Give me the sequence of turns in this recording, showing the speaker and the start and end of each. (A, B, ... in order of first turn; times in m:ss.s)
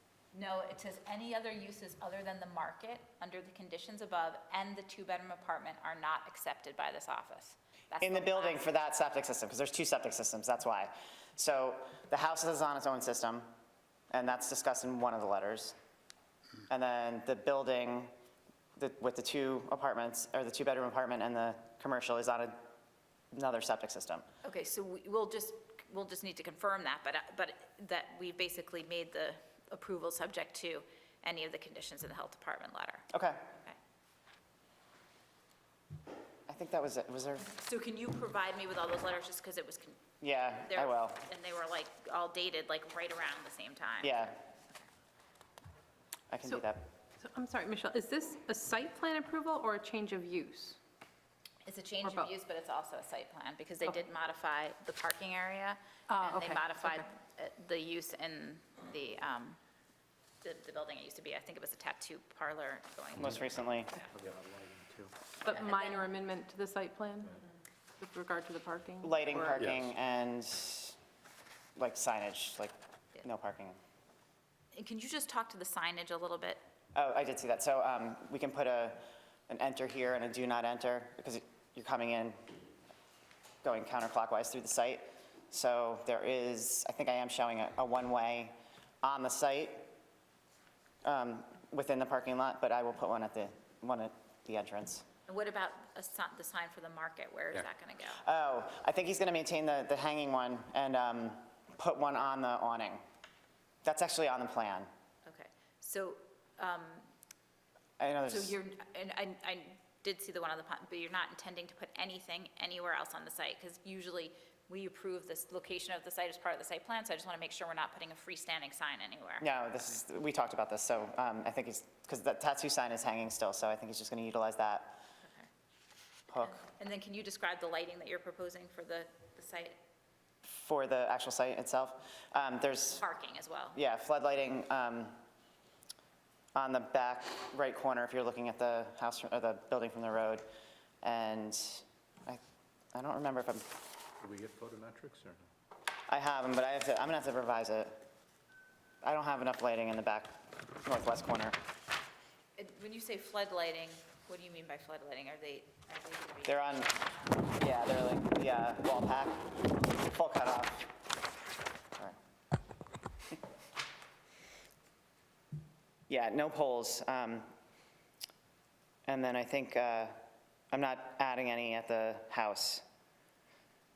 0:00.3-0:08.8 A
0:08.0-0:13.5 B
0:14.1-0:15.7 B
0:16.7-0:18.1 B
0:18.8-0:22.6 B
0:23.3-0:24.2 B
0:24.4-0:33.8 A
0:33.1-0:33.4 B
0:36.5-0:37.5 B
0:37.4-0:40.0 A
0:40.2-0:41.2 B
0:40.5-0:44.9 A
0:44.0-0:44.4 B
0:46.3-0:46.9 B
0:47.2-0:50.8 C
0:51.6-0:59.6 A
0:52.0-0:52.3 C
0:56.1-0:57.1 C
1:00.4-1:04.1 A
1:03.2-1:03.9 B
1:04.1-1:05.1 D
1:05.4-1:07.4 C
1:05.5-1:06.0 A
1:08.0-1:09.6 C
1:09.0-1:11.0 B
1:11.8-1:13.8 B
1:14.7-1:16.6 A
1:16.9-1:22.5 B
1:23.6-1:29.9 B
1:31.0-1:35.0 B
1:35.3-1:38.2 A
1:38.2-1:43.0 B
1:43.8-1:44.9 B
1:45.2-1:47.1 A
1:48.0-1:48.6 B
1:48.3-1:59.4 A
1:59.4-2:05.0 B
2:05.2-2:05.5 A
2:06.3-2:06.6 B
2:06.4-2:09.8 A
2:10.4-2:13.0 B
2:12.9-2:13.8 A
2:13.7-2:15.2 B
2:16.5-2:20.5 B
2:21.0-2:22.4 B
2:22.9-2:23.7 B
2:24.2-2:25.4 D
2:26.1-2:28.0 B
2:29.0-2:31.6 B
2:32.6-2:37.3 A
2:36.4-2:36.9 B
2:37.5-2:40.9 B
2:46.1-2:47.5 B
2:49.1-2:50.2 B
2:50.7-2:52.8 B